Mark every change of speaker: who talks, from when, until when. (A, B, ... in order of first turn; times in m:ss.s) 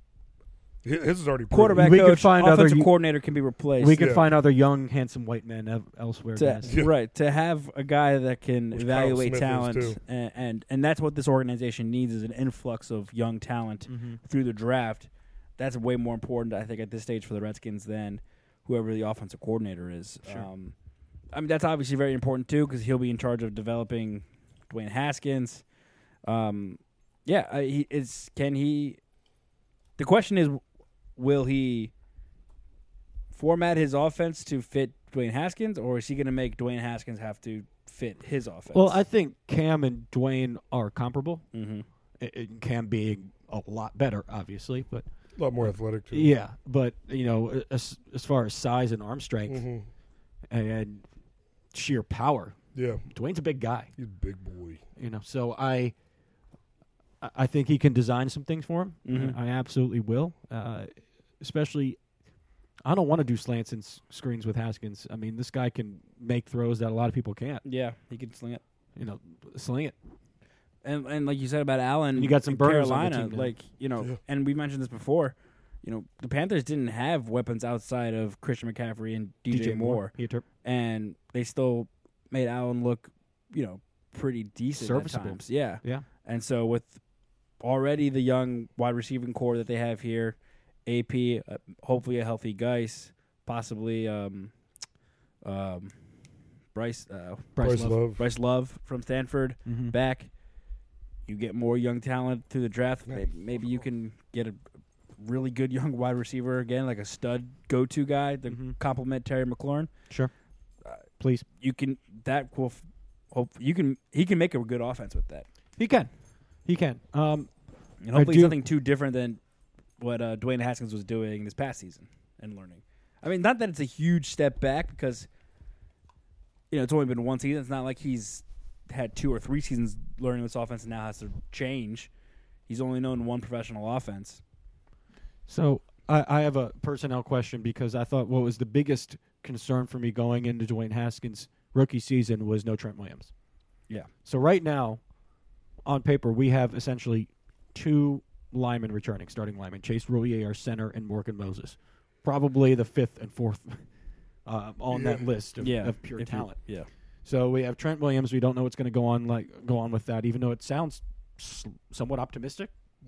0:00.8-0:02.0 A
0:01.5-0:04.1 B
0:01.8-0:02.9 C
0:03.8-0:06.7 C
0:04.0-0:04.3 A
0:06.4-0:20.8 B
0:06.7-0:06.9 A
0:08.7-0:10.0 A
0:13.9-0:14.2 C
0:21.3-0:25.6 B
0:26.2-0:29.0 B
0:30.0-0:30.6 B
0:31.2-0:31.9 B
0:33.3-0:39.0 B
0:38.7-0:41.4 C
0:41.5-0:41.9 B
0:42.2-0:45.1 C
0:45.4-0:46.3 A
0:45.6-0:49.6 C
0:49.5-0:49.9 A
0:50.5-0:51.0 C
0:51.7-0:52.6 C
0:52.8-0:53.1 A
0:53.1-0:53.9 C
0:54.0-0:54.8 A
0:55.0-0:56.0 C
0:57.2-1:02.0 C
0:59.1-0:59.4 B
1:02.8-1:07.6 C
1:07.6-1:08.6 B
1:09.0-1:10.0 C
1:10.8-1:27.0 B
1:12.2-1:13.5 C
1:19.5-1:20.4 C
1:24.8-1:26.1 C
1:27.6-1:34.5 B
1:35.4-1:36.0 B
1:36.7-1:37.5 B
1:37.6-1:38.0 C
1:37.6-1:38.2 A
1:38.1-1:40.3 B
1:39.7-1:40.0 C
1:41.3-1:44.6 B
1:43.1-1:43.8 A
1:45.2-1:49.9 B
1:48.5-1:48.8 C
1:51.2-1:51.4 C
1:51.6-1:55.5 B
1:55.8-1:56.1 C
1:56.6-1:57.5 C
1:58.0-1:59.4 B
1:58.1-1:58.6 C
2:00.0-2:05.3 B
2:06.7-2:12.1 B
2:12.7-2:14.4 B
2:15.5-2:23.3 C
2:24.2-2:25.0 C
2:25.8-2:33.8 C
2:34.4-2:36.6 C
2:34.9-2:35.3 A
2:35.6-2:36.9 B
2:37.2-2:42.7 C